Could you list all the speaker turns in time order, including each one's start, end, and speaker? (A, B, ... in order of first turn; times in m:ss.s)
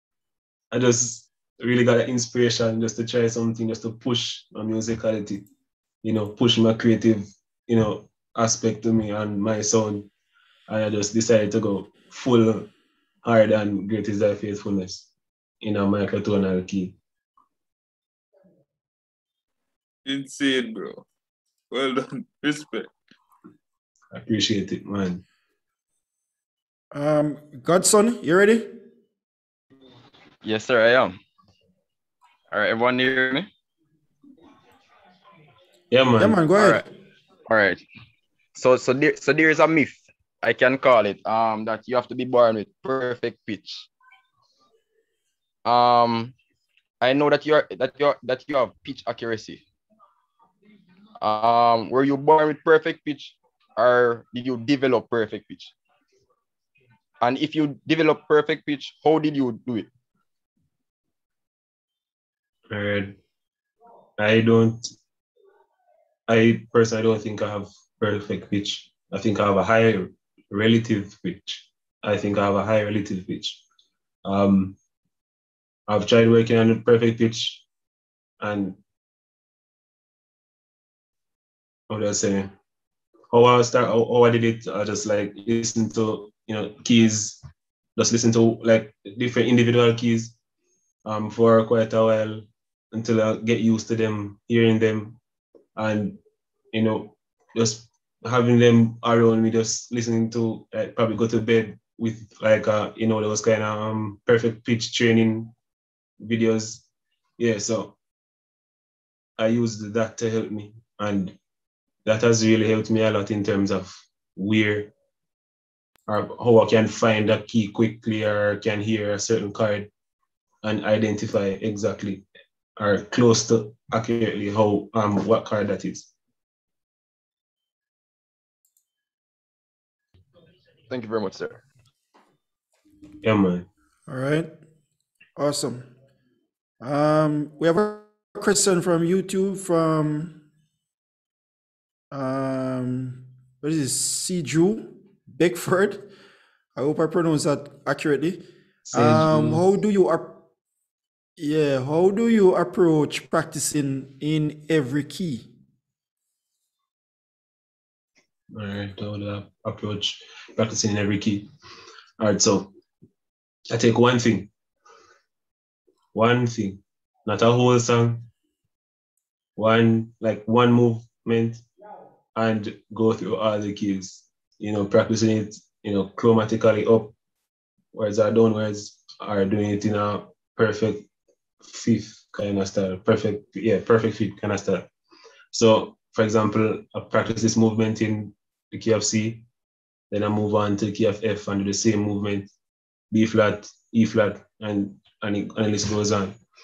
0:00.7-0:05.4 A
0:06.0-0:10.1 A
0:10.7-0:12.7 A
0:13.2-0:15.1 A
0:15.6-0:17.0 A
0:20.0-0:21.1 B
0:21.7-0:22.9 B
0:24.1-0:25.2 A
0:26.9-0:28.8 C
0:30.4-0:31.2 D
0:32.5-0:33.5 D
0:35.9-0:36.4 A
0:36.2-0:36.8 C
0:36.6-0:36.9 D
0:37.5-0:37.8 D
0:38.6-0:43.9 D
0:45.6-0:46.4 D
0:47.0-0:49.6 D
0:51.2-0:55.7 D
0:57.2-0:59.9 D
1:02.7-1:03.2 A
1:04.2-1:04.8 A
1:06.3-1:13.6 A
1:14.2-1:14.8 A
1:15.9-1:17.6 A
1:18.4-1:18.8 A
1:21.9-1:22.5 A
1:23.3-1:27.4 A
1:28.0-1:30.4 A
1:31.0-1:35.2 A
1:35.8-1:36.2 A
1:36.7-1:45.5 A
1:46.2-1:46.8 A
1:47.4-1:48.0 A
1:49.4-1:51.4 A
1:52.0-1:54.9 A
1:56.1-1:59.9 A
2:00.6-2:02.2 A
2:02.8-2:06.1 A
2:10.9-2:11.6 D
2:13.2-2:13.7 A
2:14.1-2:14.5 C
2:15.4-2:15.9 C
2:16.8-2:20.4 C
2:22.1-2:26.1 C
2:26.8-2:30.4 C
2:28.9-2:29.6 A
2:31.4-2:35.5 C
2:38.5-2:41.5 A
2:42.2-2:42.7 A
2:43.7-2:44.5 A
2:46.1-2:48.3 A
2:49.6-2:51.6 A
2:52.4-2:57.2 A
2:57.9-3:01.1 A
3:01.6-3:04.9 A
3:05.5-3:09.4 A
3:10.1-3:12.5 A
3:13.1-3:16.4 A